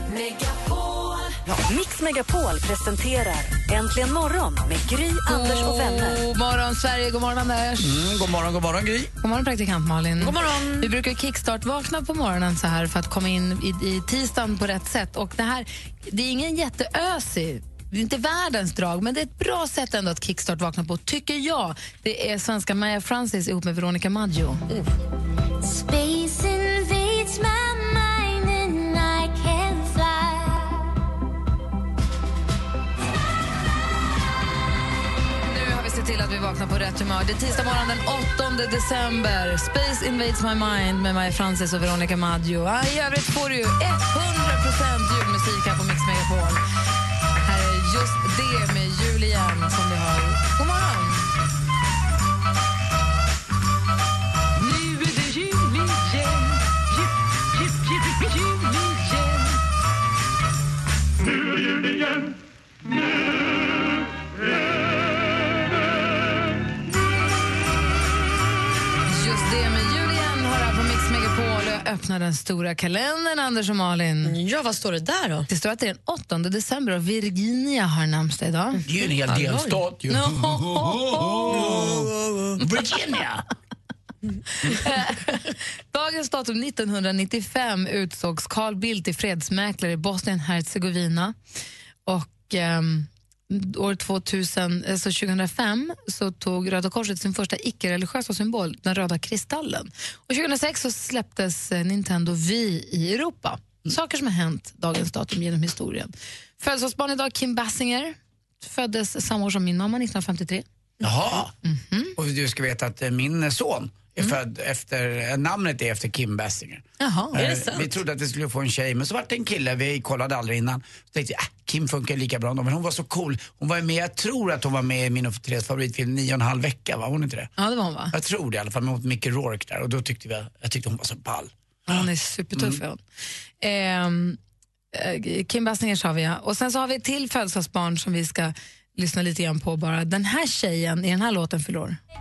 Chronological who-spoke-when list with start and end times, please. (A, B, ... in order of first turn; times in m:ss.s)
0:01.4-0:06.2 A
0:05.2-0:08.0 B
0:07.8-0:09.1 C
0:09.2-0:24.6 B
0:10.2-0:10.9 D
0:25.6-0:30.8 E
0:35.4-0:46.6 B
0:47.4-0:51.3 B
0:54.6-0:56.8 B
0:57.6-0:59.6 B
1:09.1-1:14.4 B
1:14.2-1:15.5 D
1:15.5-1:18.8 B
1:18.8-1:23.4 C
1:19.3-1:19.8 D
1:20.1-1:21.9 B
1:24.6-1:31.4 B
1:32.0-1:50.6 B
1:51.0-1:51.5 C
1:51.6-1:52.1 B
1:52.2-2:07.5 C
1:57.0-1:57.4 B
1:57.3-1:57.9 D
2:07.6-2:08.1 B
2:08.1-2:12.8 C
2:11.9-2:13.0 B
2:13.6-2:14.4 B
2:14.9-2:22.0 B